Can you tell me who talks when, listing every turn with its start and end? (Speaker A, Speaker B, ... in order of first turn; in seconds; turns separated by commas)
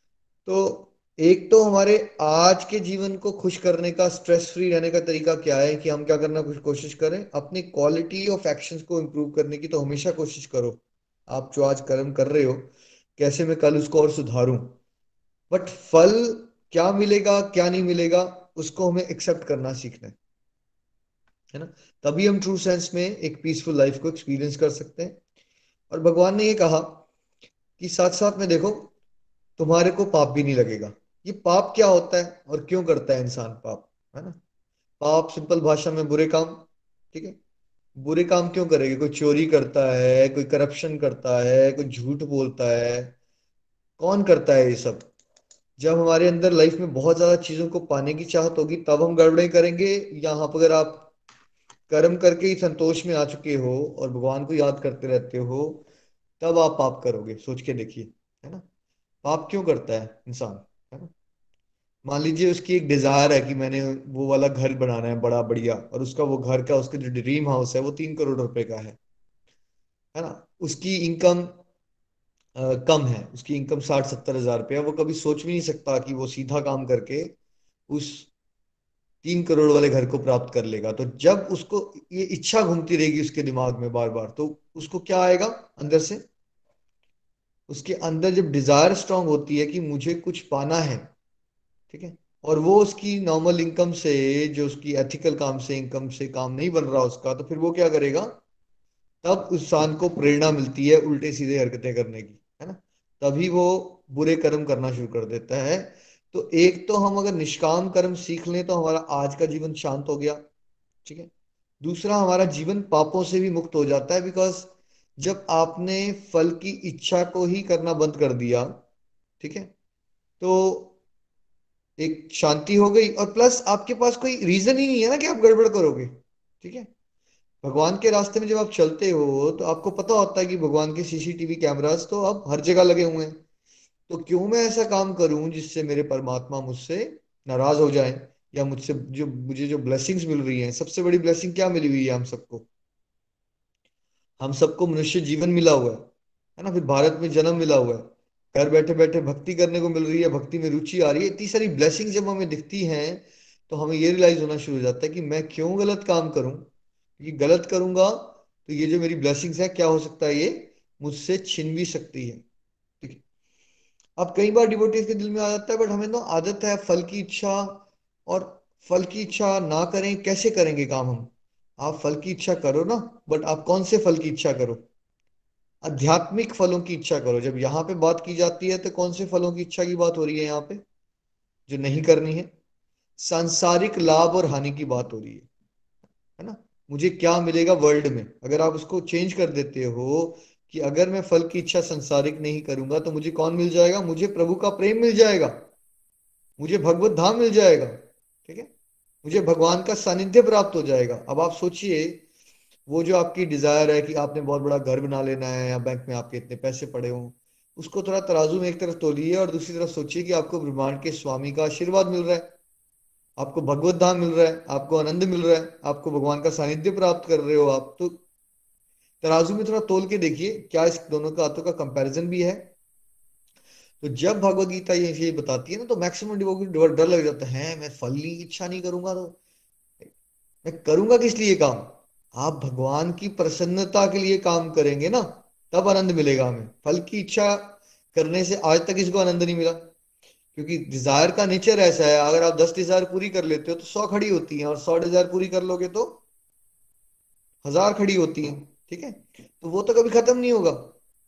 Speaker A: 0.5-10.8, Speaker A: 11.3-14.8, Speaker A: 15.5-20.1, Speaker A: 21.5-25.2, Speaker A: 25.9-27.0, Speaker A: 27.8-28.9, Speaker A: 29.6-34.4, Speaker A: 35.0-37.4, Speaker A: 38.0-43.1, Speaker A: 44.0-45.1, Speaker A: 45.8-51.1, Speaker A: 51.9-55.9, Speaker A: 56.4-58.6, Speaker A: 59.2-61.1, Speaker A: 62.0-69.0, Speaker A: 70.2-71.6, Speaker A: 72.6-77.3, Speaker A: 77.9-78.3, Speaker A: 79.2-86.2, Speaker A: 87.7-91.1, Speaker A: 91.9-98.4, Speaker A: 99.2-110.4, Speaker A: 111.0-111.3, Speaker A: 111.8-118.8, Speaker A: 119.4-119.7, Speaker A: 120.4-120.9, Speaker A: 122.0-126.9, Speaker A: 127.6-133.4, Speaker A: 134.1-142.7, Speaker A: 144.4-146.1, Speaker A: 146.6-162.4, Speaker A: 164.2-174.8, Speaker A: 175.8-180.8, Speaker A: 181.7-182.5, Speaker A: 183.2-185.5, Speaker A: 186.4-195.6, Speaker A: 196.6-198.7, Speaker A: 199.2-202.2, Speaker A: 202.9-212.5, Speaker A: 213.4-218.2, Speaker A: 219.2-222.7, Speaker A: 224.0-229.4, Speaker A: 230.7-239.9, Speaker A: 240.6-246.2, Speaker A: 247.6-250.9